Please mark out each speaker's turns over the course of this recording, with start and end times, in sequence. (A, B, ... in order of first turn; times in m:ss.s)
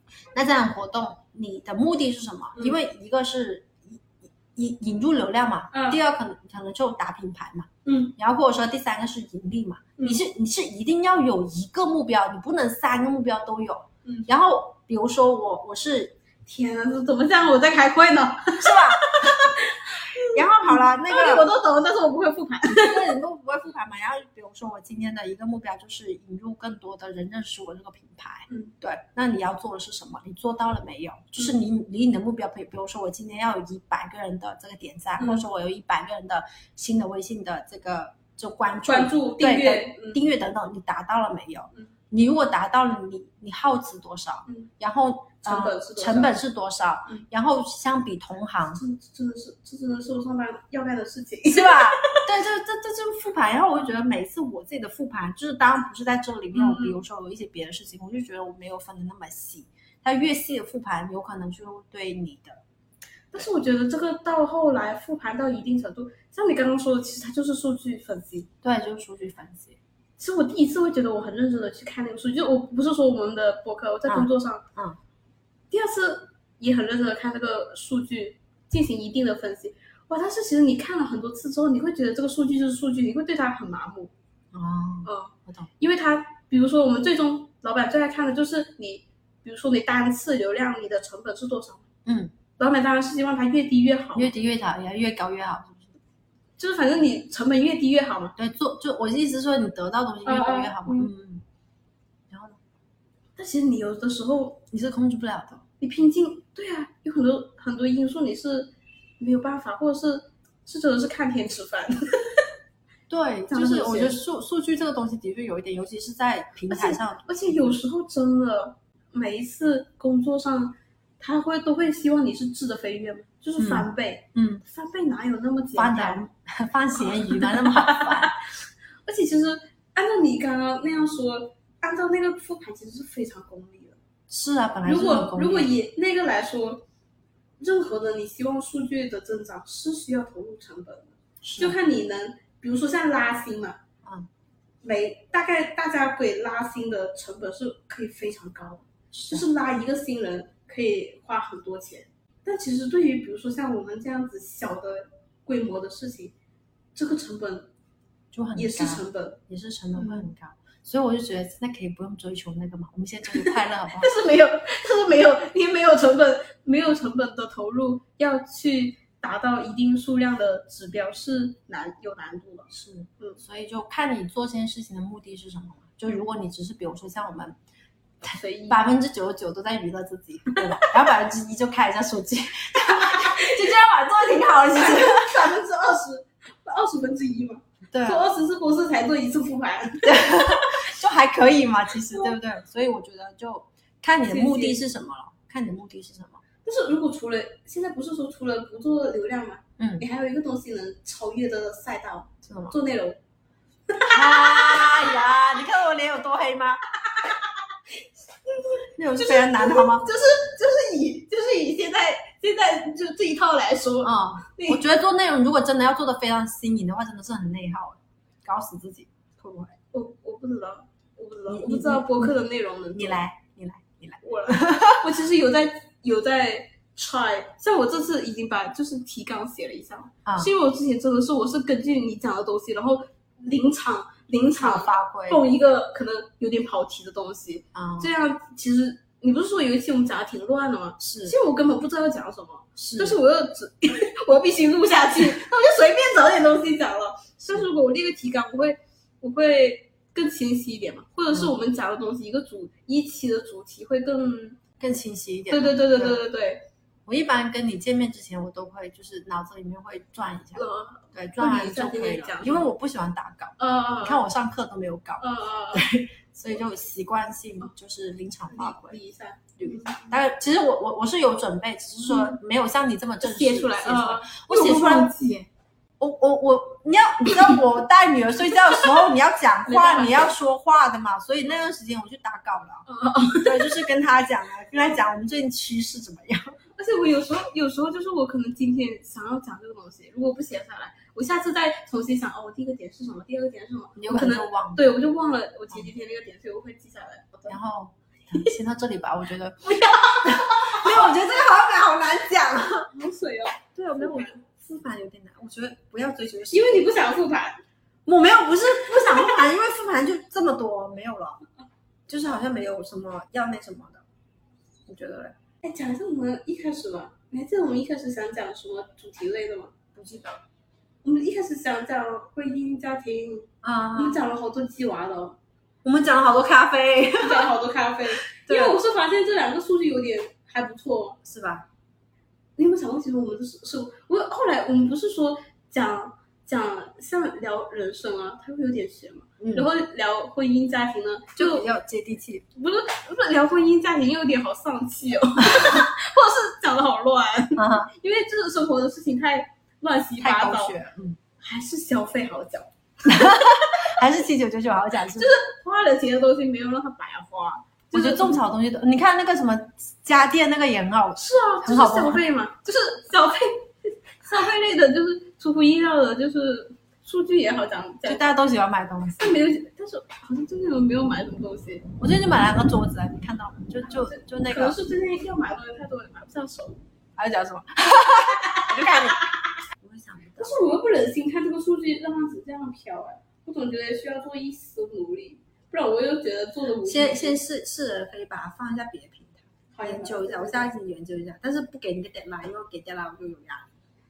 0:00.3-0:16.2 A
0:05.7-0:06.0 B
0:07.8-0:08.1 B
0:14.0-0:14.3 B
0:16.4-0:23.2 B
0:18.6-0:19.4 A
0:20.3-0:21.5 A
0:22.7-0:48.8 A
0:28.5-0:28.7 B
0:35.2-0:35.4 B
0:38.8-0:40.2 B
0:45.4-0:46.4 B
0:48.8-0:52.2 B
0:51.4-1:02.6 A
0:56.5-0:57.0 B
1:03.3-1:08.5 B
1:08.6-1:09.8 A
1:10.2-1:14.6 B
1:14.1-1:15.0 A
1:15.7-1:24.1 B
1:24.5-1:25.7 A
1:25.0-1:31.9 B
1:32.0-1:32.3 A
1:32.6-1:34.3 B
1:34.1-1:35.9 A
1:36.6-1:38.3 B
1:38.4-1:41.4 A
1:40.2-1:41.1 B
1:42.3-1:42.6 A
1:43.4-1:44.6 B
1:44.7-1:45.6 A
1:45.8-1:52.0 B
1:53.1-1:57.8 A
1:53.5-1:54.2 B
1:56.7-2:06.2 B
2:03.6-2:04.6 A
2:05.8-2:08.3 A
2:07.0-2:08.4 B
2:09.0-2:14.0 B
2:14.3-2:15.7 A
2:14.8-2:16.8 B
2:17.6-2:23.8 B
2:21.4-2:21.8 A
2:24.0-2:24.3 A
2:24.8-2:36.3 B
2:29.1-2:29.5 A
2:36.9-2:37.7 B
2:38.3-2:44.1 A
2:38.6-2:39.4 B
2:40.0-2:40.3 B
2:43.3-2:53.4 B
2:52.7-2:57.6 A
2:58.2-3:05.4 A
2:58.3-2:58.9 B
3:03.0-3:03.7 B
3:04.4-3:10.9 B
3:07.9-3:08.2 A
3:10.0-3:16.4 A
3:12.1-3:12.4 B
3:14.3-3:14.8 B
3:16.6-3:23.2 B
3:19.8-3:20.0 A
3:22.4-3:22.8 A
3:23.9-3:25.2 B
3:24.1-3:26.8 A
3:27.1-3:27.4 B
3:28.0-3:34.8 B
3:29.0-3:30.1 A
3:34.0-3:39.7 A
3:39.9-3:43.2 B
3:41.5-3:42.4 A
3:42.9-3:45.1 A
3:44.2-4:14.6 B
3:50.2-3:50.5 A
3:54.6-3:55.4 A
3:57.7-3:58.1 A
4:01.0-4:01.4 A
4:02.8-4:03.2 A
4:14.8-4:16.2 A
4:15.5-4:16.6 B
4:17.1-4:29.0 A
4:20.5-4:22.7 B
4:23.6-4:24.3 B
4:25.2-4:25.8 B
4:28.5-4:30.1 B
4:29.6-4:35.1 A
4:32.1-4:32.4 B
4:33.2-4:35.5 B
4:36.0-4:46.6 A
4:39.6-4:40.3 B
4:42.8-4:43.8 B
4:46.8-4:57.6 B
4:54.0-4:54.8 A
4:57.5-5:02.9 A
4:59.6-5:01.1 B
5:02.9-5:04.3 B
5:03.7-5:06.9 A
5:06.5-5:07.6 B
5:08.0-5:11.4 A
5:12.1-5:14.0 A
5:14.9-5:15.4 A
5:15.6-5:19.9 B
5:20.0-5:20.4 A
5:21.0-5:25.4 B
5:23.6-5:24.2 A
5:25.8-5:27.5 A
5:27.2-5:31.2 B
5:28.3-5:28.8 A
5:31.2-5:31.6 A
5:32.6-5:41.7 B
5:39.4-5:39.7 A
5:41.4-5:42.4 A
5:42.5-5:50.8 B
5:47.6-5:47.9 A
5:50.2-5:51.2 A
5:51.4-5:54.0 B
5:53.0-5:55.4 A
5:55.1-5:58.4 B
5:57.9-6:02.2 A
6:01.2-6:08.3 B
6:08.0-6:09.4 A
6:09.2-6:11.8 B
6:12.0-6:14.8 A
6:13.9-6:16.8 B
6:17.2-6:19.2 A
6:18.3-6:19.5 B
6:19.8-6:20.6 A
6:20.4-6:27.4 B
6:26.8-6:33.6 A
6:29.7-6:30.7 B